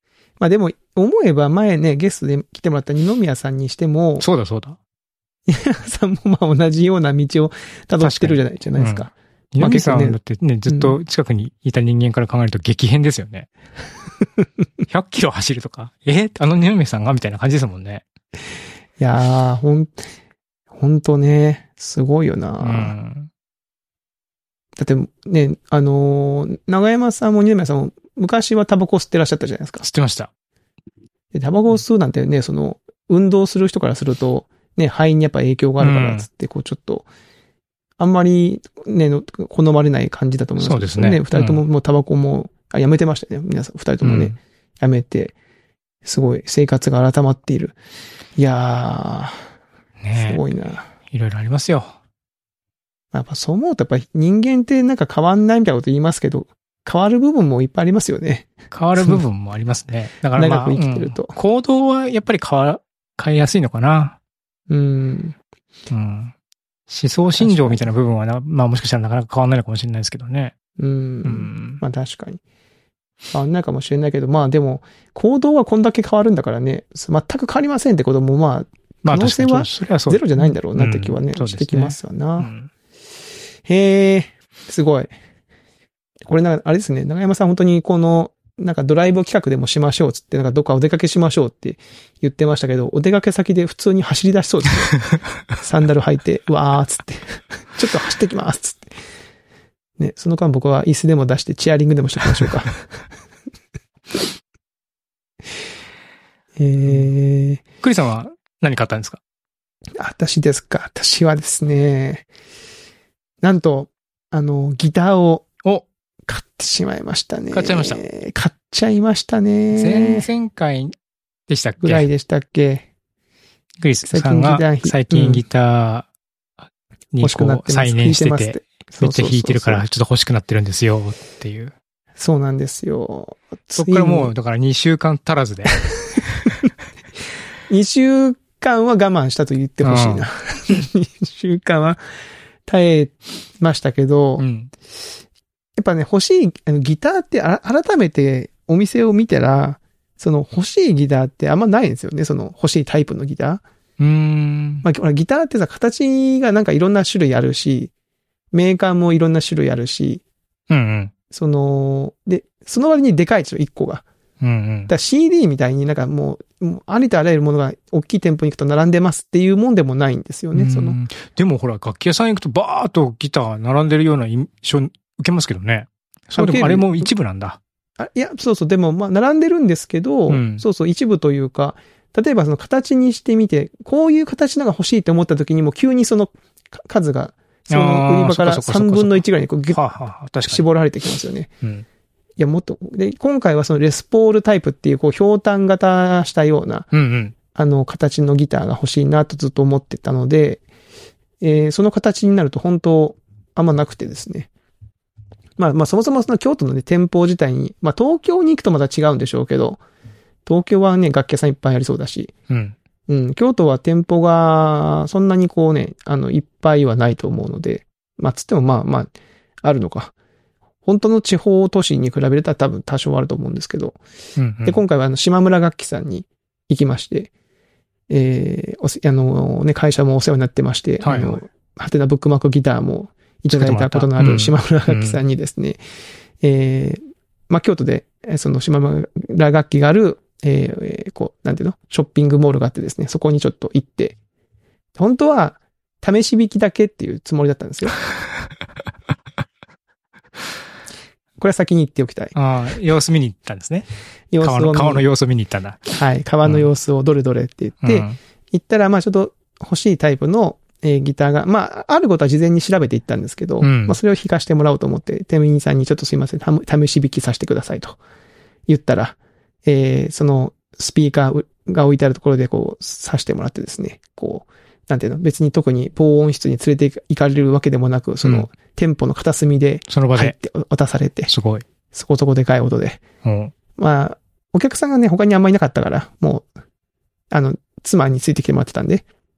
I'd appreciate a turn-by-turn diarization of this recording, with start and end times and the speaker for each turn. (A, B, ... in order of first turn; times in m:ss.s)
0:00.4-0:04.2 A
0:04.2-0:04.8 B
0:05.5-0:11.0 A
0:08.0-0:13.5 B
0:14.9-0:18.0 B
0:19.0-0:20.0 A
0:20.7-0:22.9 A
0:22.6-0:23.3 B
0:24.8-0:29.8 A
0:29.8-0:30.3 B
0:31.3-0:37.1 A
0:35.8-0:36.3 B
0:38.0-0:45.3 A
0:40.6-0:41.6 B
0:44.0-0:44.4 B
0:46.0-0:47.8 A
0:48.4-0:49.4 A
0:50.0-0:50.4 B
0:50.1-0:50.9 A
0:51.1-0:51.9 B
0:53.1-0:59.2 A
0:58.7-1:04.2 B
1:00.4-1:01.3 A
1:04.7-1:05.4 A
1:05.9-1:06.3 B
1:06.9-1:10.5 B
1:07.4-1:07.9 A
1:10.8-1:12.4 A
1:11.2-1:11.8 B
1:13.3-1:22.5 A
1:19.0-1:22.7 B
1:23.6-1:25.1 A
1:26.2-1:35.0 A
1:35.5-1:38.9 A
1:40.0-1:42.8 A
1:46.6-1:47.6 A
1:47.8-1:49.2 B
1:50.0-1:52.3 A
1:53.4-1:55.4 A
1:56.3-2:00.3 A
1:57.5-1:58.0 B
1:59.7-2:00.9 B
2:01.5-2:02.1 B
2:01.8-2:02.9 A
2:03.8-2:06.1 B
2:04.0-2:05.4 A
2:07.1-2:11.7 B
2:07.2-2:09.8 A
2:12.2-2:14.3 A
2:13.7-2:16.5 B
2:17.7-2:22.0 A
2:19.8-2:20.2 B
2:22.7-2:24.4 A
2:24.4-2:24.7 B
2:25.8-2:33.6 A
2:34.0-2:34.8 B
2:34.8-2:37.9 A
2:38.5-2:40.2 A
2:40.7-2:41.1 B
2:41.3-2:44.0 A
2:44.4-2:44.9 B
2:44.9-2:51.0 A
2:50.5-2:57.6 B
2:56.4-2:57.1 A
2:58.0-3:09.8 A
3:00.3-3:00.6 B
3:07.7-3:10.6 B
3:10.4-3:11.5 A
3:12.4-3:16.9 A
3:16.9-3:17.3 B
3:17.5-3:20.6 A
3:21.4-3:24.5 A
3:25.6-3:29.8 A
3:30.4-3:32.3 A
3:32.5-3:32.8 B
3:33.1-3:39.1 A
3:39.6-3:40.1 A
3:40.8-3:44.0 A
3:44.4-3:44.8 B
3:44.6-3:47.3 A
3:48.1-3:55.8 A
3:51.0-3:51.4 B
3:53.5-3:55.2 B
3:56.4-4:04.2 A
4:05.0-4:07.9 A
4:11.4-4:12.3 A
4:12.3-4:13.9 B
4:14.3-4:15.0 A
4:14.4-4:15.9 B
4:15.9-4:28.0 A
4:17.8-4:18.2 B
4:23.6-4:24.0 B
4:28.7-4:41.3 A
4:38.2-4:38.5 B
4:39.9-4:40.4 B
4:41.3-4:41.6 B
4:41.9-4:43.0 A
4:43.2-4:43.5 B
4:43.8-4:46.5 A
4:47.3-4:49.0 A